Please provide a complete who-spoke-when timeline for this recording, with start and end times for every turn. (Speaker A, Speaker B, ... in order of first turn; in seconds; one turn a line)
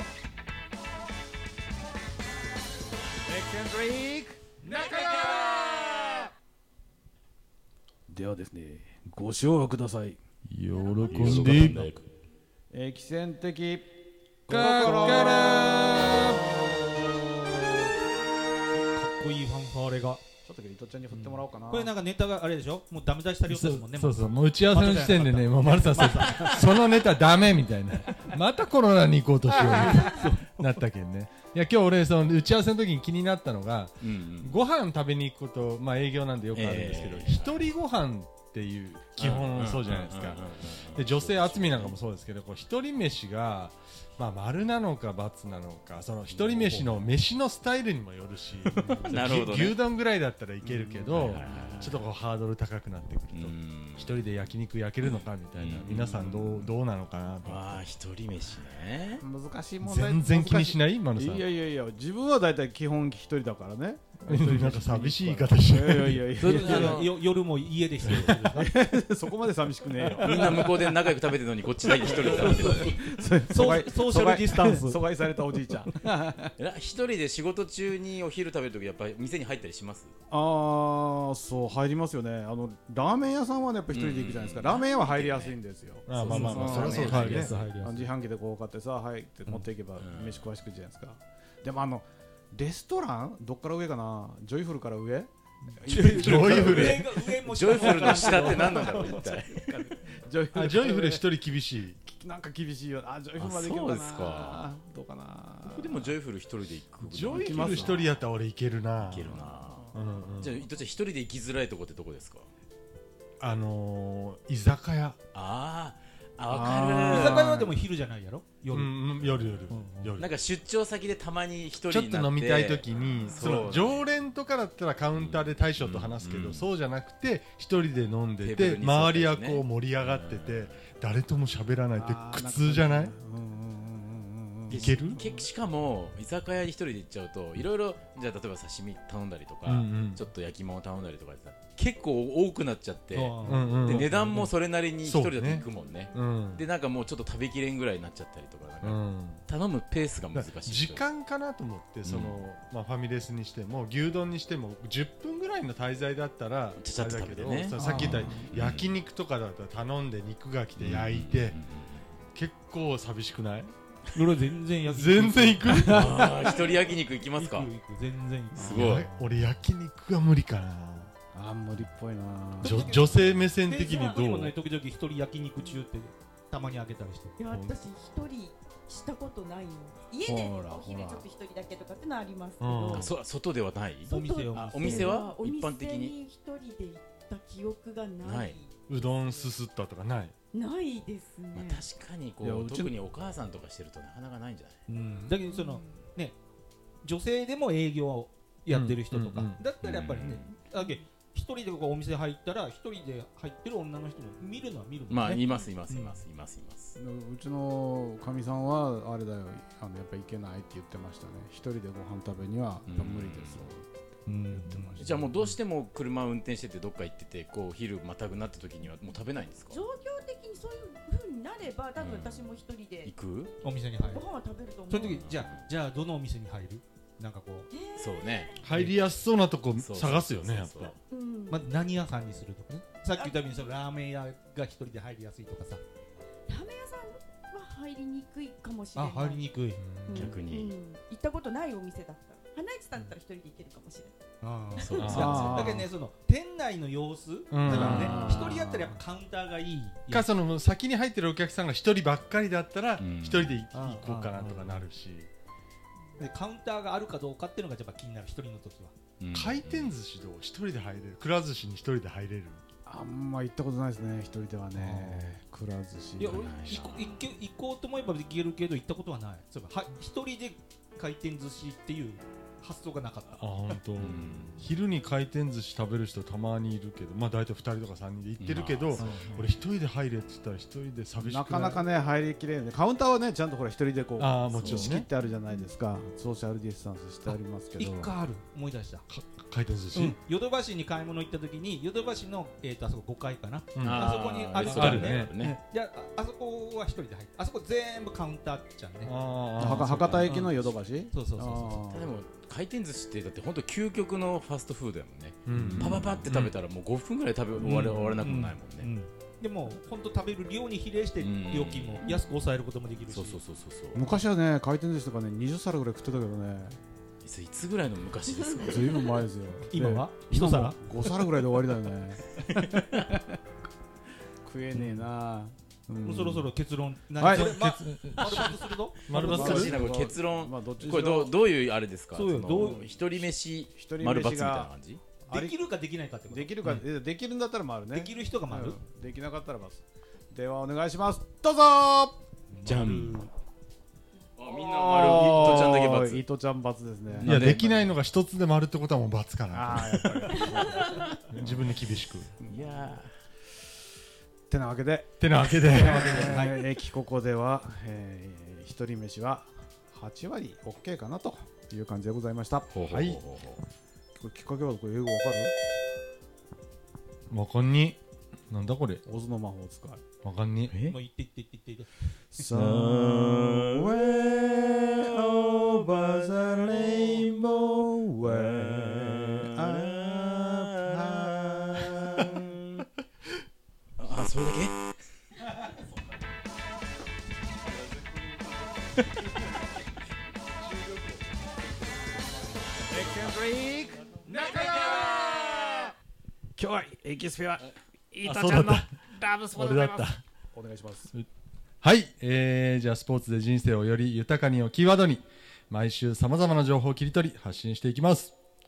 Speaker A: 3.2-6.3
Speaker A: 8.1-10.2
Speaker B: 10.5-11.9
Speaker C: 11.1-12.0
Speaker A: 11.3-11.6
Speaker A: 12.7-13.9
Speaker A: 14.5-16.4
Speaker B: 14.5-17.2
Speaker D: 18.9-20.2
Speaker A: 20.4-21.9
Speaker D: 21.1-26.6
Speaker B: 23.4-57.8
Speaker D: 29.6-30.5
Speaker C: 34.0-34.6
Speaker C: 36.5-37.7
Speaker C: 39.2-42.0
Speaker C: 46.3-46.9
Speaker C: 48.9-49.8
Speaker A: 50.6-51.3
Speaker C: 51.1-52.0
Speaker C: 53.3-54.2
Speaker C: 55.0-56.7
Speaker C: 57.4-59.2
Speaker A: 59.2-67.0
Speaker B: 59.8-61.5
Speaker B: 64.2-66.5
Speaker D: 66.4-68.7
Speaker C: 66.4-67.1
Speaker A: 68.1-71.0
Speaker C: 70.2-72.9
Speaker A: 71.8-76.5
Speaker D: 72.2-73.0
Speaker D: 73.5-75.0
Speaker C: 76.6-80.1
Speaker A: 80.3-97.0
Speaker C: 83.9-85.6
Speaker B: 86.1-87.5
Speaker C: 86.2-87.7
Speaker D: 86.2-88.1
Speaker C: 90.0-90.4
Speaker D: 95.8-99.2
Speaker B: 96.0-97.1
Speaker C: 96.4-99.9
Speaker A: 97.8-101.3
Speaker B: 100.5-102.0
Speaker A: 102.0-106.1
Speaker C: 103.4-104.6
Speaker C: 105.7-108.1
Speaker B: 107.0-110.6
Speaker A: 107.2-108.1
Speaker C: 109.1-112.5
Speaker A: 109.4-110.3
Speaker B: 113.4-115.2
Speaker C: 115.3-117.6
Speaker A: 116.5-117.7
Speaker D: 117.1-119.0
Speaker B: 118.7-120.3
Speaker D: 119.7-120.1
Speaker C: 120.2-124.0
Speaker B: 121.9-133.1
Speaker C: 125.2-126.7
Speaker C: 128.4-130.8
Speaker A: 131.9-135.4
Speaker B: 134.7-135.2
Speaker C: 134.7-151.0
Speaker B: 139.7-140.2
Speaker D: 143.1-144.5
Speaker B: 143.4-144.5
Speaker B: 145.0-146.6
Speaker B: 148.8-149.4
Speaker B: 150.3-161.6
Speaker C: 152.0-152.4
Speaker C: 156.8-158.9
Speaker A: 157.7-158.5
Speaker C: 160.8-162.0
Speaker B: 162.3-163.7
Speaker D: 164.1-166.2
Speaker B: 164.9-166.2
Speaker A: 165.7-166.7
Speaker C: 165.8-167.7
Speaker D: 167.3-169.3
Speaker C: 168.6-169.1
Speaker B: 168.7-171.1
Speaker A: 171.3-172.8
Speaker D: 172.6-177.3
Speaker B: 172.6-174.5
Speaker E: 177.4-183.1
Speaker B: 177.5-177.8
Speaker A: 180.2-181.3
Speaker B: 182.6-183.1
Speaker C: 182.9-186.1
Speaker E: 184.1-189.3
Speaker D: 184.1-185.2
Speaker C: 188.2-188.6
Speaker B: 188.9-190.3
Speaker E: 190.5-191.8
Speaker C: 191.5-194.8
Speaker A: 192.4-192.9
Speaker D: 194.9-196.3
Speaker E: 195.4-196.0
Speaker D: 197.0-206.2
Speaker B: 198.7-199.6
Speaker C: 199.8-200.5
Speaker C: 205.1-206.9
Speaker A: 206.9-213.9
Speaker C: 212.8-213.7
Speaker D: 214.2-215.0
Speaker A: 214.5-215.3
Speaker C: 215.0-219.8
Speaker E: 219.7-223.1
Speaker C: 222.0-223.5
Speaker D: 223.6-224.2
Speaker E: 224.0-225.3
Speaker D: 224.9-227.7
Speaker C: 225.0-225.7
Speaker E: 227.7-228.6
Speaker C: 228.0-228.5
Speaker B: 228.6-230.9
Speaker C: 229.8-231.0
Speaker E: 231.1-231.7
Speaker D: 231.5-235.8
Speaker E: 233.1-233.7
Speaker E: 236.5-239.5
Speaker D: 238.9-240.2
Speaker B: 239.8-240.3
Speaker E: 240.1-244.2
Speaker C: 240.1-240.7
Speaker D: 244.4-250.3
Speaker C: 244.8-245.8
Speaker B: 245.0-245.5
Speaker A: 245.1-245.9
Speaker B: 247.5-248.3
Speaker C: 247.7-248.5
Speaker A: 247.7-248.9
Speaker B: 250.1-255.3
Speaker C: 253.0-253.6
Speaker D: 253.7-254.8
Speaker D: 256.2-258.9
Speaker C: 259.2-260.0
Speaker B: 259.3-262.6
Speaker A: 262.9-266.8
Speaker D: 264.7-265.3
Speaker D: 266.2-273.7
Speaker C: 266.2-267.1
Speaker B: 273.4-281.8
Speaker C: 274.0-274.6
Speaker C: 278.4-279.2
Speaker D: 279.0-279.5
Speaker A: 281.2-288.1
Speaker B: 284.2-285.1
Speaker C: 284.5-284.9
Speaker D: 287.8-289.0
Speaker B: 289.1-290.1
Speaker D: 289.9-299.1
Speaker B: 293.7-295.3
Speaker C: 293.8-295.6
Speaker B: 299.0-300.4
Speaker A: 299.6-302.1
Speaker D: 300.1-301.8
Speaker C: 301.9-308.9
Speaker B: 305.5-306.5
Speaker D: 305.6-305.8
Speaker D: 307.6-313.4
Speaker C: 311.2-312.0
Speaker C: 313.1-314.1
Speaker A: 313.9-316.8
Speaker C: 317.2-319.2
Speaker E: 318.3-318.8
Speaker A: 318.6-323.4
Speaker D: 319.7-320.8
Speaker C: 322.5-323.0
Speaker A: 324.4-326.5
Speaker D: 326.0-329.0
Speaker A: 327.2-327.5
Speaker B: 327.2-329.8
Speaker C: 329.1-335.0
Speaker A: 329.1-331.3
Speaker D: 332.1-332.9
Speaker A: 333.8-334.7
Speaker A: 335.3-335.6
Speaker D: 335.3-336.8
Speaker A: 336.3-342.1
Speaker D: 337.9-338.8
Speaker D: 342.5-343.3
Speaker C: 342.6-343.1
Speaker C: 344.4-346.2
Speaker A: 344.4-347.9
Speaker C: 347.1-347.6
Speaker B: 347.2-350.1
Speaker A: 349.5-351.7
Speaker C: 350.8-351.1
Speaker B: 351.3-352.3
Speaker A: 352.4-352.8
Speaker C: 352.5-353.1
Speaker A: 354.5-362.7
Speaker B: 355.2-356.4
Speaker D: 355.7-356.7
Speaker C: 362.7-363.6
Speaker B: 362.9-363.2
Speaker A: 364.2-365.5
Speaker B: 367.3-368.0
Speaker B: 368.5-369.0
Speaker A: 369.1-370.0
Speaker B: 370.2-370.7
Speaker C: 370.7-371.0
Speaker D: 370.9-371.9
Speaker A: 372.3-382.4
Speaker C: 372.5-374.1
Speaker C: 375.4-382.8
Speaker C: 384.0-384.7
Speaker B: 390.7-391.2
Speaker A: 392.9-395.9
Speaker A: 396.6-401.1
Speaker B: 398.2-398.9
Speaker B: 399.5-400.2
Speaker B: 401.8-408.3